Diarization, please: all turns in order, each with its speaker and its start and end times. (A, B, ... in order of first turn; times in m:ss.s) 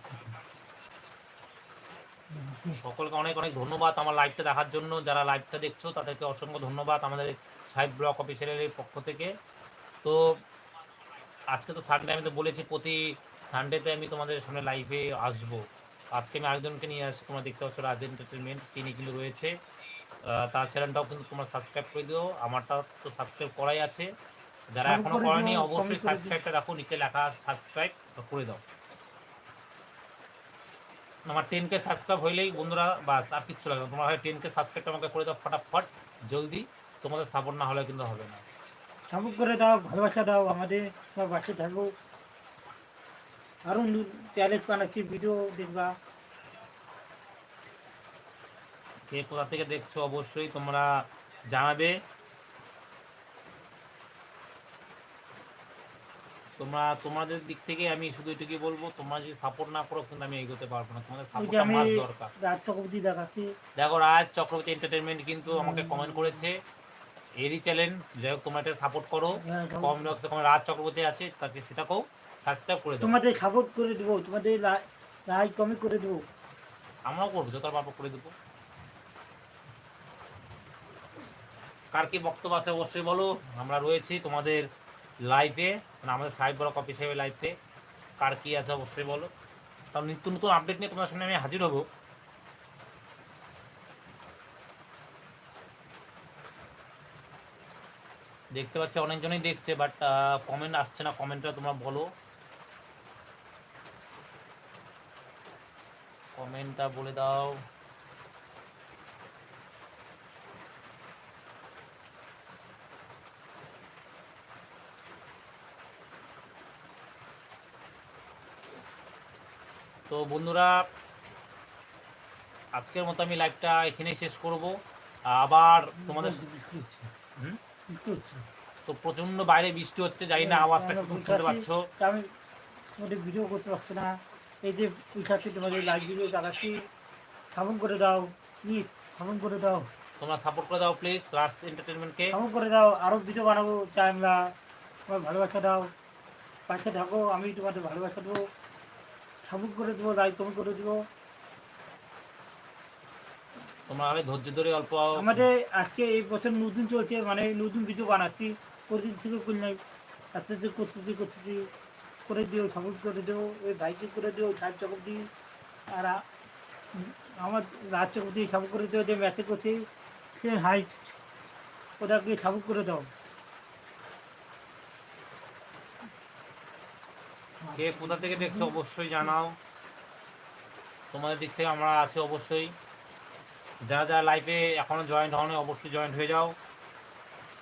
0:02.3-0:02.8 A
0:02.7-0:09.3 B
0:10.0-0:10.4 B
0:11.5-0:15.6 B
0:16.1-0:19.5 B
0:20.2-0:24.1 B
0:24.7-0:28.6 B
0:24.8-0:26.4 A
0:31.3-0:38.4 B
0:39.1-0:41.9 A
0:43.6-0:45.9 A
0:49.1-0:51.9 B
0:56.6-1:02.3 B
1:01.4-1:03.5 A
1:03.8-1:06.6 B
1:05.5-1:06.4 A
1:07.4-1:13.2 B
1:09.4-1:10.2 A
1:13.0-1:16.2 A
1:17.1-1:18.3 B
1:21.9-1:24.6 B
1:25.3-1:27.5 B
1:28.2-1:29.3 B
1:29.9-1:31.9 B
1:38.5-1:42.1 B
1:46.3-1:47.6 B
2:00.1-2:00.8 B
2:02.8-2:04.8 B
2:05.3-2:06.4 B
2:06.0-2:07.1 A
2:07.9-2:08.4 A
2:08.9-2:11.9 B
2:10.4-2:12.2 A
2:13.0-2:16.8 A
2:17.5-2:19.9 A
2:20.2-2:22.4 B
2:22.3-2:24.4 A
2:25.1-2:25.9 A
2:26.7-2:28.4 A
2:29.4-2:31.0 A
2:33.9-2:35.5 B
2:35.2-2:39.8 A
2:40.3-2:41.6 A
2:42.3-2:45.3 A
2:45.9-2:46.2 A
2:47.0-2:49.8 A
2:50.3-2:51.2 A
2:52.0-2:53.1 A
2:57.6-2:58.7 A
2:57.8-2:59.6 B
3:01.1-3:02.7 B
3:03.9-3:06.6 B